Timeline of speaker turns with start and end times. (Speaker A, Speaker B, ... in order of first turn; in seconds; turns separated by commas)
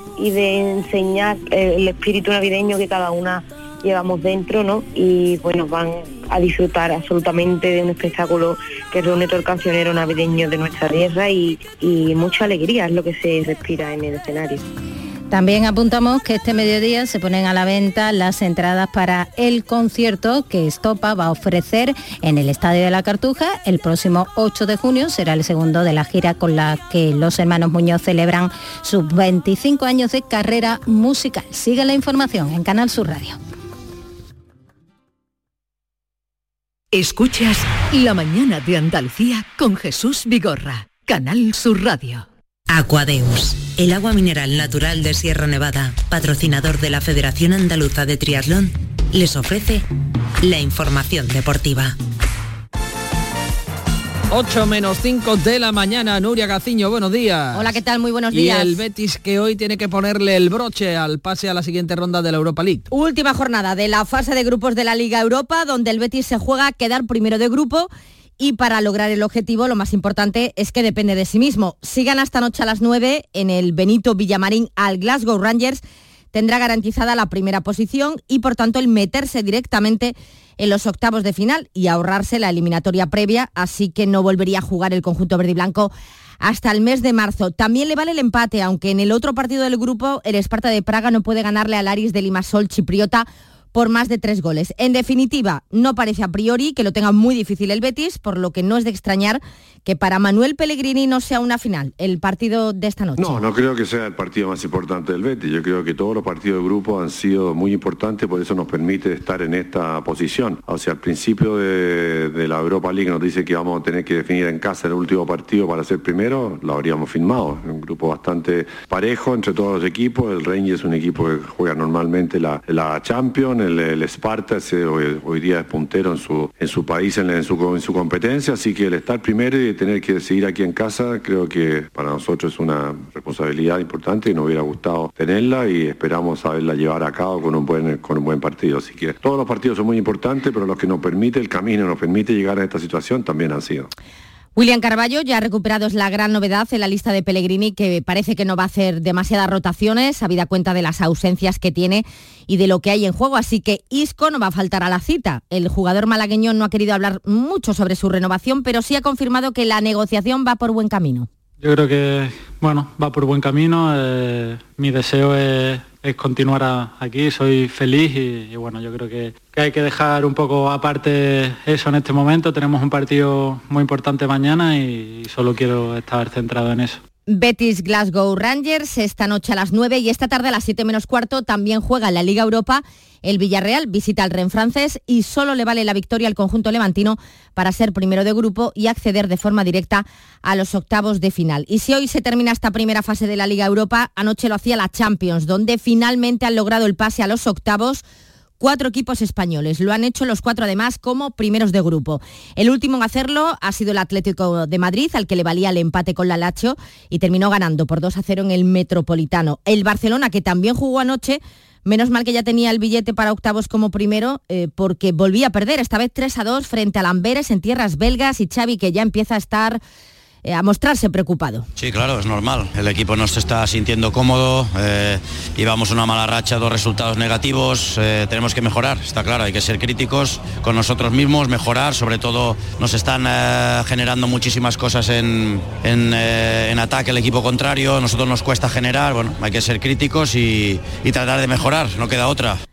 Speaker A: 0.2-5.8, Speaker A: 6.3-14.4, Speaker B: 15.3-33.4, Speaker C: 36.9-42.2, Speaker D: 42.7-49.8, Speaker D: 50.4-51.9, Speaker E: 54.3-57.8, Speaker F: 57.5-58.8, Speaker E: 58.3-62.9, Speaker F: 62.9-75.8, Speaker F: 76.3-103.4, Speaker G: 103.2-143.9, Speaker F: 144.6-161.3, Speaker H: 161.6-177.0, Speaker F: 177.3-198.0, Speaker F: 198.6-219.8, Speaker F: 220.4-221.6, Speaker I: 221.8-242.6